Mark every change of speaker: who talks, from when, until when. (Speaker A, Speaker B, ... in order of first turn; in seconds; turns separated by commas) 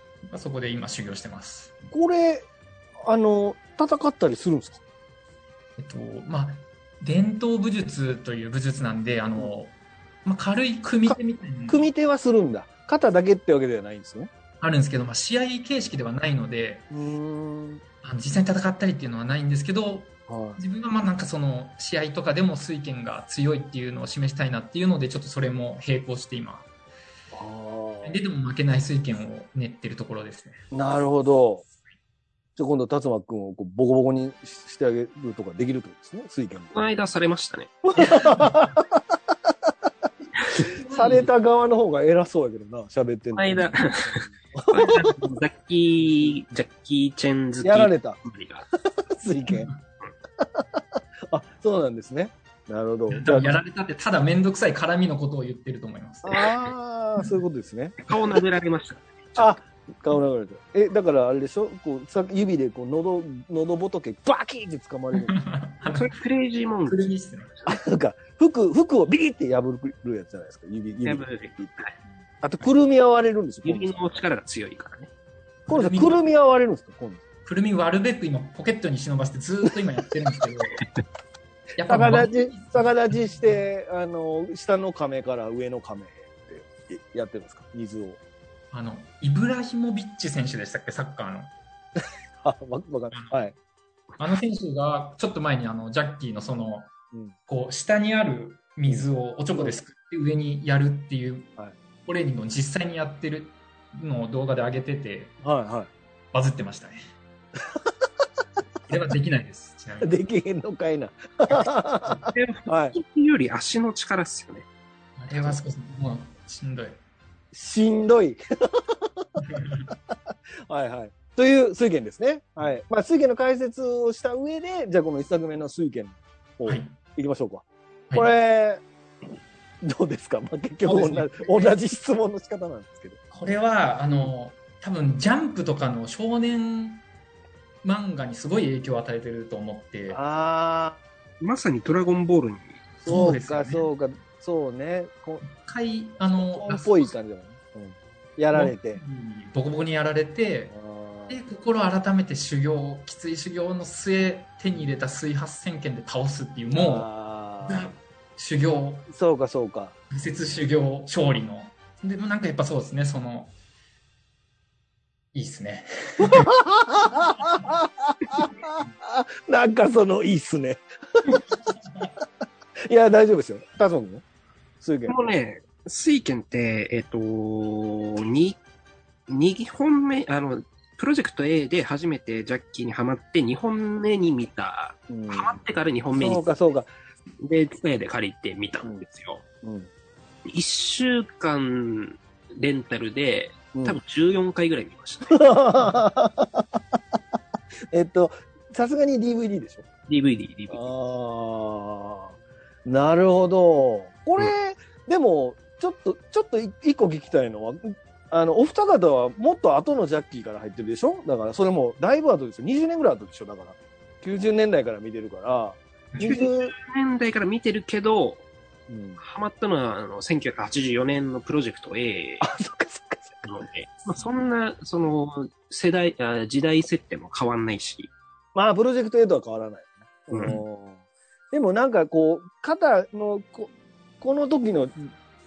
Speaker A: 0.3-1.7, Speaker B: 1.9-2.5, Speaker B: 3.0-4.8, Speaker A: 5.8-9.7, Speaker A: 10.2-11.8, Speaker B: 11.7-14.3, Speaker A: 14.6-16.9, Speaker B: 16.9-17.8, Speaker A: 18.0-26.7, Speaker B: 20.3-20.6, Speaker B: 27.3-28.2, Speaker A: 28.0-30.6, Speaker B: 30.7-31.6, Speaker B: 32.6-36.7, Speaker C: 36.7-37.8, Speaker B: 37.9-39.0, Speaker B: 40.5-45.0, Speaker A: 40.8-41.2, Speaker C: 43.3-48.6, Speaker B: 47.6-48.2, Speaker B: 49.0-49.7, Speaker A: 49.5-49.8, Speaker B: 50.4-53.6, Speaker A: 53.1-56.5, Speaker B: 56.2-58.0, Speaker C: 58.0-59.6, Speaker B: 59.4-65.3, Speaker A: 65.2-66.1, Speaker C: 65.8-67.1, Speaker A: 66.9-67.6, Speaker B: 67.7-74.2, Speaker C: 71.0-72.0, Speaker C: 73.6-75.1, Speaker A: 75.7-76.3, Speaker B: 75.7-77.2, Speaker A: 77.4-80.8, Speaker A: 81.8-83.2, Speaker B: 81.8-88.2, Speaker A: 88.7-91.5, Speaker B: 92.4-93.5, Speaker A: 94.2-96.9, Speaker A: 97.5-105.4, Speaker B: 98.9-99.8, Speaker B: 105.4-105.9, Speaker A: 106.3-107.0, Speaker A: 108.9-110.1, Speaker B: 110.0-113.0, Speaker C: 112.3-114.7, Speaker A: 115.2-117.0, Speaker B: 117.5-119.3, Speaker A: 119.5-119.8, Speaker B: 120.7-128.8, Speaker A: 126.7-126.9, Speaker B: 129.8-133.2, Speaker A: 130.8-131.8, Speaker A: 133.3-137.0, Speaker B: 134.1-134.3, Speaker A: 137.8-140.2, Speaker B: 140.1-141.0, Speaker C: 141.4-142.8, Speaker B: 143.0-145.4, Speaker A: 143.1-143.9, Speaker A: 145.4-147.1, Speaker B: 146.3-149.0, Speaker A: 148.5-150.7, Speaker B: 150.7-151.4, Speaker A: 151.3-157.1, Speaker B: 156.7-157.9, Speaker A: 157.6-159.1, Speaker B: 159.1-159.9, Speaker A: 160.1-163.5, Speaker A: 165.3-166.5, Speaker B: 166.2-171.4, Speaker B: 172.9-174.2, Speaker B: 174.8-175.2, Speaker C: 175.1-178.6, Speaker C: 179.3-186.4, Speaker B: 185.1-185.6, Speaker B: 186.1-186.9, Speaker C: 187.4-189.4, Speaker B: 189.6-189.9, Speaker C: 190.4-195.5, Speaker B: 193.7-194.0, Speaker B: 195.3-196.8, Speaker B: 197.9-199.9, Speaker C: 200.1-200.9, Speaker B: 200.7-216.7, Speaker C: 216.2-218.4, Speaker B: 218.9-219.2, Speaker C: 219.2-222.5, Speaker B: 222.4-223.5, Speaker C: 223.4-228.1, Speaker B: 228.5-231.0, Speaker C: 230.3-230.6, Speaker B: 231.5-235.1